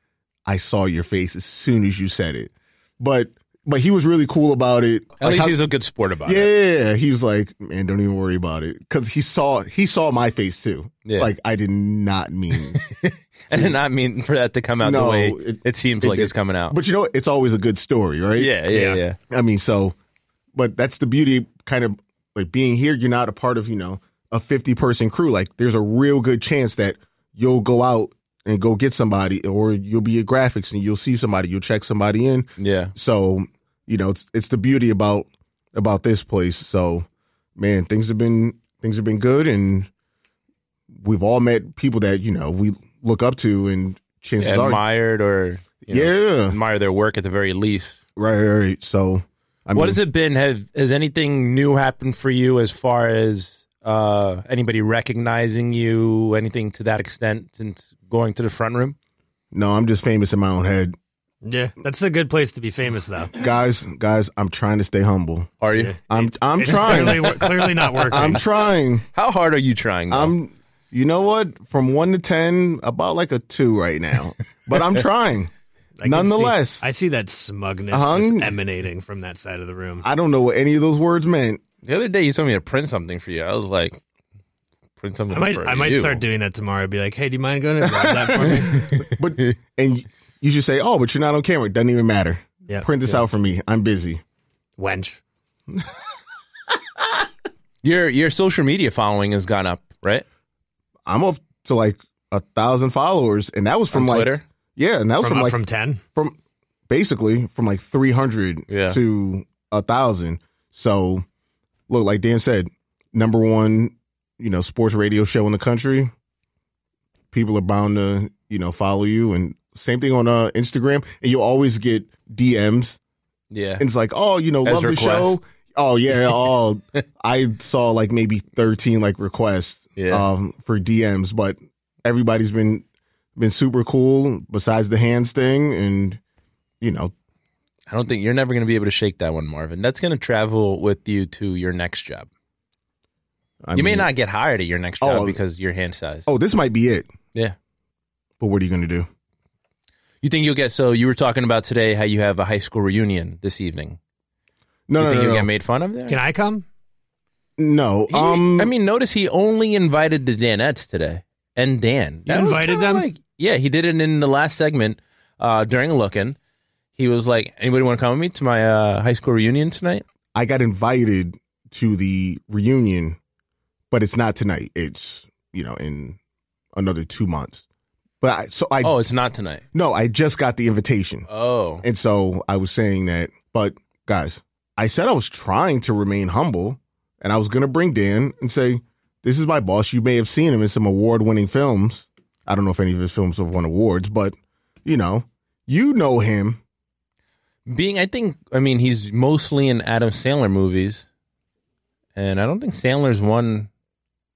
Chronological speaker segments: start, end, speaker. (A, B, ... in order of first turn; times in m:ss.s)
0:00.4-0:05.6 A
0:05.2-0:06.5 B
0:06.2-0:12.8 A
0:11.0-0:11.3 B
0:12.5-0:16.7 B
0:13.5-0:13.8 A
0:14.8-0:18.5 A
0:18.4-0:19.2 B
0:18.7-0:19.0 C
0:19.2-0:19.9 A
0:20.5-0:37.0 A
0:32.6-0:32.9 B
0:37.6-0:39.9 A
0:41.0-0:44.8 A
0:44.4-0:48.0 B
0:45.8-0:46.6 A
0:48.2-0:50.0 A
0:49.7-0:59.0 B
0:59.5-1:01.0 A
1:01.4-1:03.3 C
1:03.3-1:05.5 A
1:05.6-1:05.9 B
1:05.7-1:08.4 C
1:06.1-1:07.4 A
1:06.6-1:08.4 B
1:08.1-1:09.0 A
1:09.1-1:10.3 B
1:10.1-1:15.5 A
1:16.0-1:20.0 C
1:16.0-1:16.8 A
1:17.9-1:18.5 A
1:20.0-1:21.6 A
1:21.8-1:24.0 B
1:25.0-1:26.2 B
1:25.3-1:29.0 C
1:27.8-1:34.2 A
1:28.7-1:29.5 B
1:32.7-1:33.2 C
1:34.8-1:35.2 C
1:37.8-1:40.2 B
1:41.0-1:45.6 A
1:43.9-1:44.4 B
1:45.2-1:46.0 C
1:46.9-1:51.2 A
1:48.7-1:49.0 B
1:51.9-1:56.1 A
1:57.3-2:03.0 A
2:03.5-2:03.8 B
2:03.8-2:12.8 A
2:04.6-2:05.4 B
2:10.0-2:10.3 B
2:13.4-2:16.2 A
2:16.8-2:17.1 A
2:17.9-2:22.3 B
2:23.6-2:24.1 A
2:23.7-2:26.3 B
2:25.0-2:25.4 A
2:26.3-2:27.1 A
2:28.4-2:29.1 A
2:30.2-2:34.0 B
2:34.9-2:35.5 A
2:34.9-2:36.2 B
2:36.1-2:36.6 C
2:37.6-2:38.7 A
2:38.1-2:46.4 B
2:42.3-2:43.0 C
2:47.0-2:50.0 B
2:50.3-2:53.2 A
2:53.9-2:56.2 A
2:56.7-2:57.6 A
2:58.2-2:59.0 A
2:58.8-2:59.6 B
2:59.7-3:01.3 A
3:01.3-3:01.8 B
3:01.8-3:16.6 A
3:17.7-3:21.0 B
3:22.2-3:23.7 B